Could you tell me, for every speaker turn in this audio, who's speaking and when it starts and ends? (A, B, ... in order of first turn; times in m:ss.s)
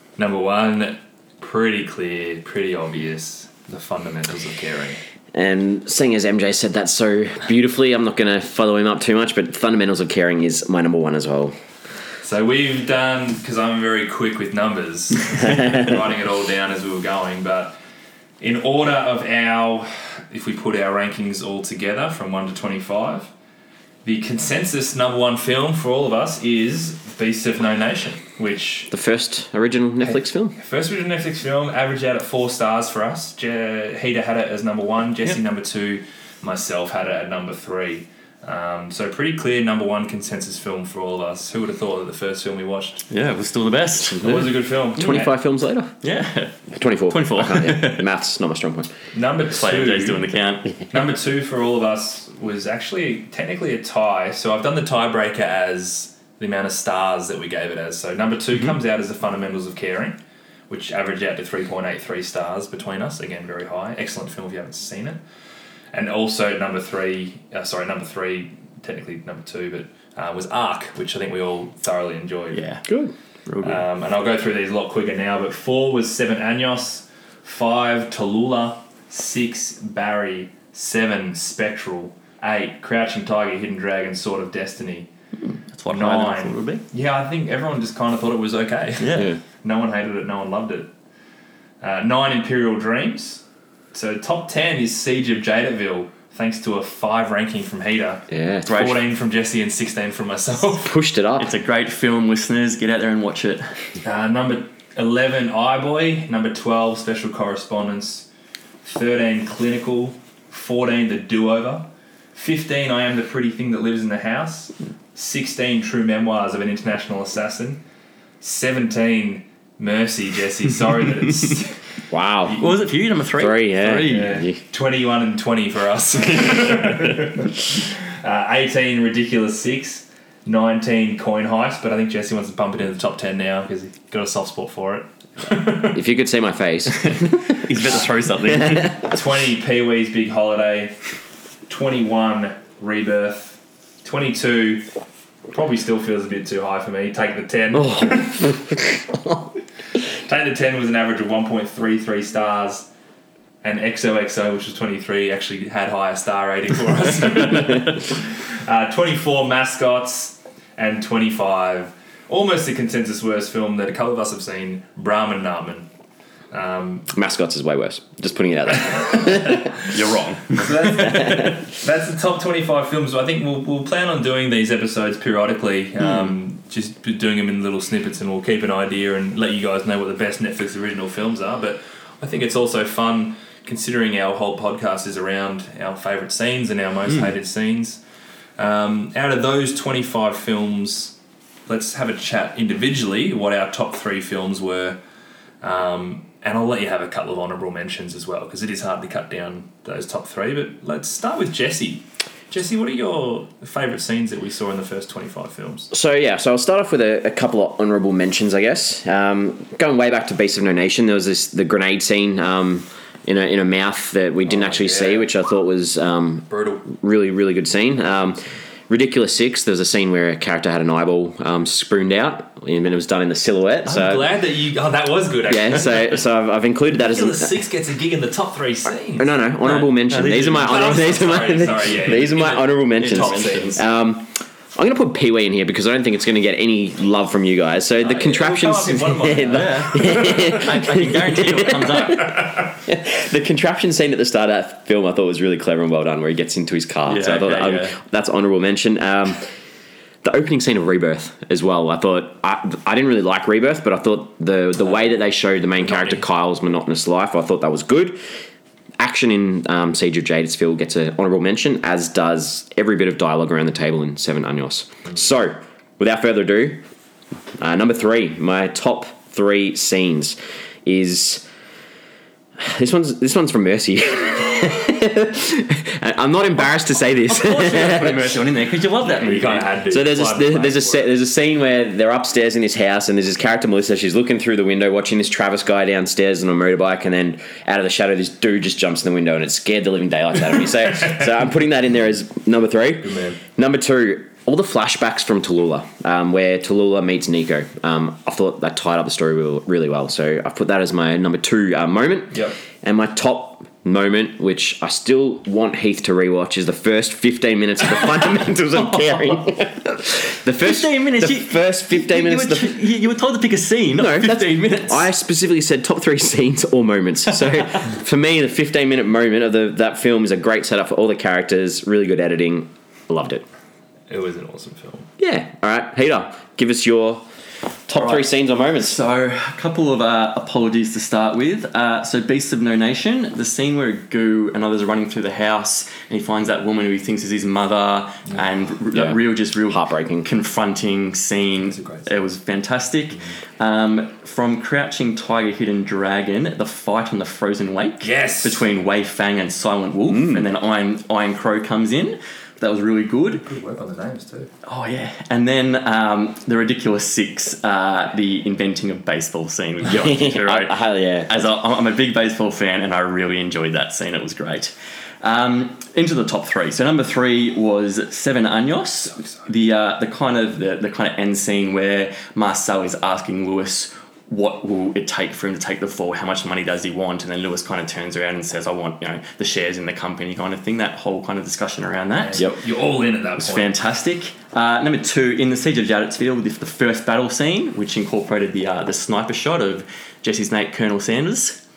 0:00.2-0:05.0 A
0:05.3-0:11.5 B
0:12.2-0:17.8 A
0:18.4-0:23.3 A
0:24.0-0:28.9 A
0:28.9-0:30.6 B
0:30.0-0:43.0 A
0:43.1-0:44.4 C
0:44.2-0:45.4 A
0:44.2-0:45.9 B
0:46.0-0:48.0 C
0:46.7-0:48.9 B
0:49.1-0:50.3 A
0:49.5-0:50.8 C
0:50.9-1:00.2 A
1:00.7-1:05.2 A
1:05.9-1:12.6 A
1:12.5-1:12.9 C
1:12.9-1:13.1 B
1:13.5-1:13.8 C
1:13.6-1:25.1 A
1:25.4-1:26.8 C
1:25.9-1:30.9 A
1:29.0-1:29.3 C
1:31.8-1:33.4 A
1:33.9-1:40.9 A
1:38.3-1:38.8 B
1:38.6-1:39.0 C
1:40.8-1:41.5 B
1:41.4-1:43.7 C
1:44.0-1:48.3 A
1:48.8-1:57.8 A
1:58.4-2:01.8 A
2:02.1-2:02.6 B
2:02.5-2:04.4 C
2:03.4-2:04.6 B
2:04.0-2:16.0 A
2:15.9-2:17.3 B
2:17.0-2:19.0 C
2:18.6-2:18.9 B
2:18.9-2:20.9 A
2:21.7-2:24.9 A
2:25.5-2:28.5 A
2:27.7-2:29.5 B
2:30.2-2:32.9 A
2:33.6-2:45.9 A
2:46.5-2:47.1 A
2:47.1-2:49.7 B
2:49.8-2:50.8 C
2:50.6-3:08.0 A
2:51.1-2:51.5 B
3:08.6-3:11.2 A
3:11.7-3:15.0 A
3:15.6-3:25.9 A
3:25.9-3:44.3 B
3:34.4-3:35.3 A
3:36.5-3:36.9 A
3:43.8-3:46.2 A
3:45.5-3:47.6 B
3:46.9-3:49.3 A
3:49.2-4:09.4 B
3:49.6-3:51.0 C
3:50.5-3:53.8 A
3:52.5-3:53.8 C
3:58.0-4:00.6 A
3:59.5-4:02.4 C
4:07.1-4:08.0 C
4:10.2-4:18.2 B
4:15.8-4:16.2 A
4:19.0-4:26.8 B
4:27.6-4:31.4 B
4:32.6-4:38.4 B
4:37.3-4:39.7 C
4:39.0-4:41.1 A
4:39.9-5:12.8 B
4:53.0-4:53.4 A
5:08.8-5:09.3 C
5:10.5-5:15.1 C
5:13.9-5:23.4 B
5:24.1-5:25.1 A
5:25.2-5:27.2 B
5:27.9-5:29.0 B
5:27.9-5:53.5 C
5:38.9-5:39.2 B
5:39.7-5:40.3 B
5:41.6-5:42.1 A
5:48.0-5:48.6 A
5:50.1-5:50.5 B
5:53.4-5:54.5 A
5:54.6-6:22.4 C
5:59.9-6:01.3 B
6:09.1-6:09.4 A
6:22.2-6:23.7 A
6:23.4-6:31.6 C